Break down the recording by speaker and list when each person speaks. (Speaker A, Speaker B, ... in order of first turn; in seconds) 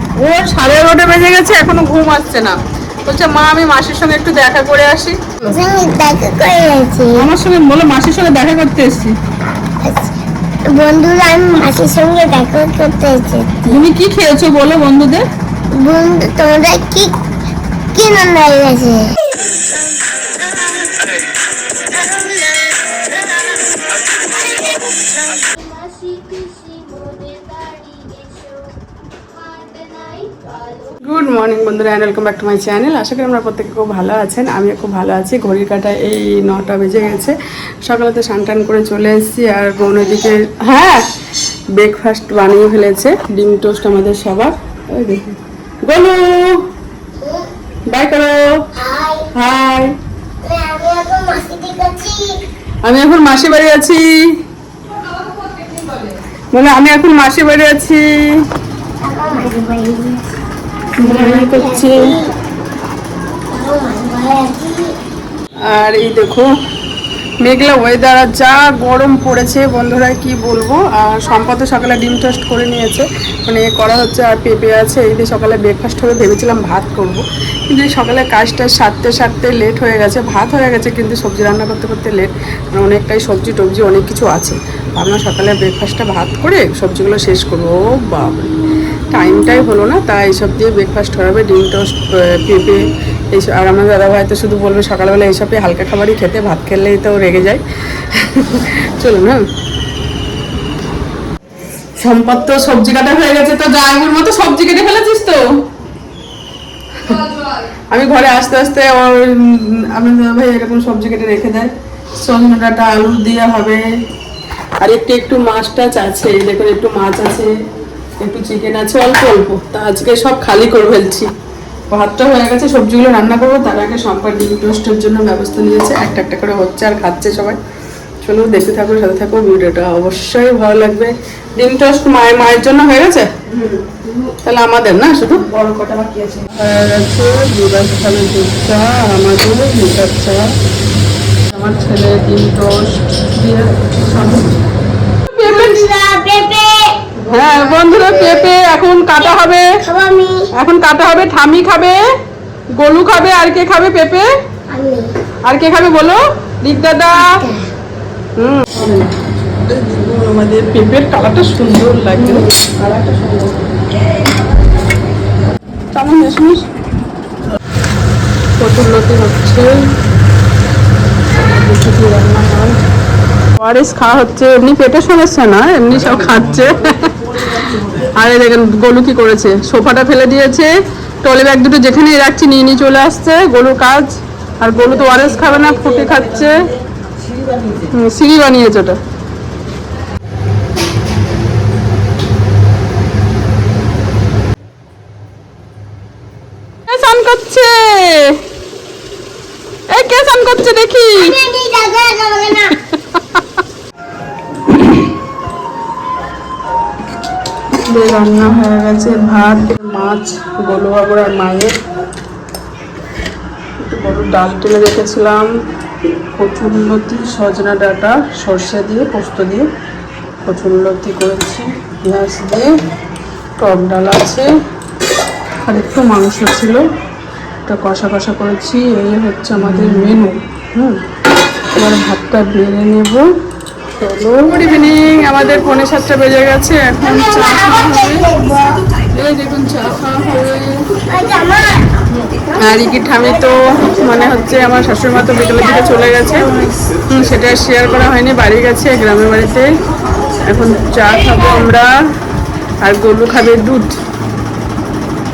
Speaker A: 0.2-5.2, 7.2-9.1, 13.7-15.2, 31.0-41.0, 41.8-46.6, 47.9-48.6, 49.3-50.0, 52.8-54.1, 55.4-58.2, 61.0-62.1, 65.7-66.5, 67.4-88.5, 89.1-99.4, 102.0-105.4, 107.0-107.3, 107.9-113.8, 114.8-117.5, 118.2-121.3, 121.9-127.6, 128.2-140.5, 141.5-144.6, 145.3-145.9, 147.2-149.7, 150.5-152.1, 152.8-154.3, 155.4-157.3, 158.4-159.1, 159.6-163.6, 165.9-166.6, 168.6-169.8, 171.4-172.8, 173.6-180.7, 181.2-186.7, 187.9-189.0, 196.9-198.4, 199.9-201.3, 207.8-211.7, 213.8-215.5, 216.3-219.6, 220.4-222.7, 223.6-224.5, 225.7-226.8, 227.7-231.0, 231.8-233.2, 234.0-238.3, 239.1-240.9, 242.6-246.5, 247.1-249.6, 250.4-251.9, 252.8-253.9
Speaker B: 5.5-7.2, 9.8-10.2, 10.7-13.8, 15.8-17.1, 17.9-19.1, 20.5-21.2, 21.8-28.7, 29.3-30.9, 47.2-47.5, 48.7-49.3, 50.4-52.4, 59.0-60.2, 61.0-62.3, 63.5-64.9, 145.4-148.5, 149.8-150.5, 154.7-155.1, 157.1-157.7, 201.2-202.8, 237.0-238.8, 241.1-241.9